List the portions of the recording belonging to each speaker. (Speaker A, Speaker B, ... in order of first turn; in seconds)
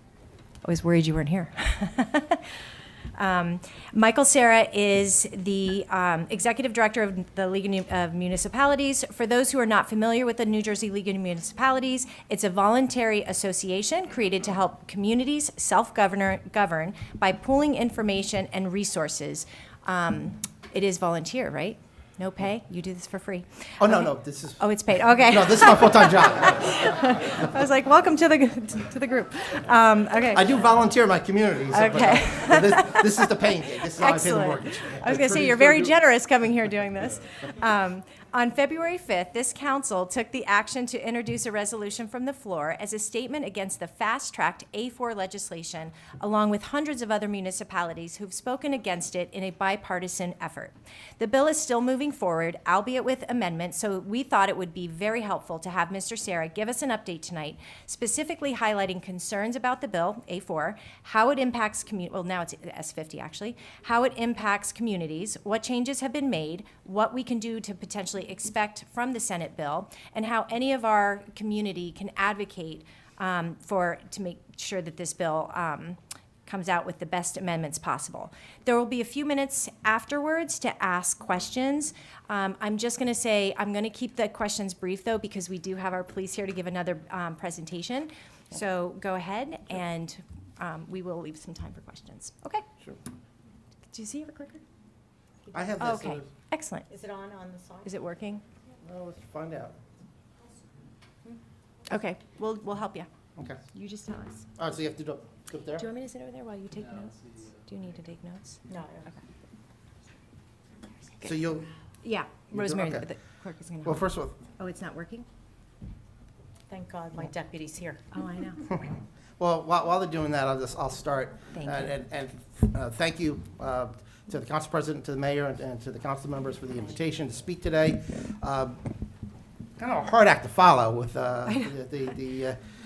Speaker A: 0.6-2.4, 3.1-30.5, 31.7-33.3, 33.9-92.7, 93.9-94.6, 95.8-96.9, 97.8-98.4, 101.9-103.1, 103.7-104.5, 105.7-108.7, 112.0-115.2, 118.1-118.7, 121.5-121.9
Speaker B: 23.8-24.8, 25.3-26.6, 30.3-35.9, 95.5-96.3, 98.8-99.8, 104.6-105.8, 111.2-111.7, 112.5-113.1, 113.8-114.4, 119.4-128.8, 129.8-132.6
Speaker C: 96.9-97.9, 108.7-109.1, 116.7-118.0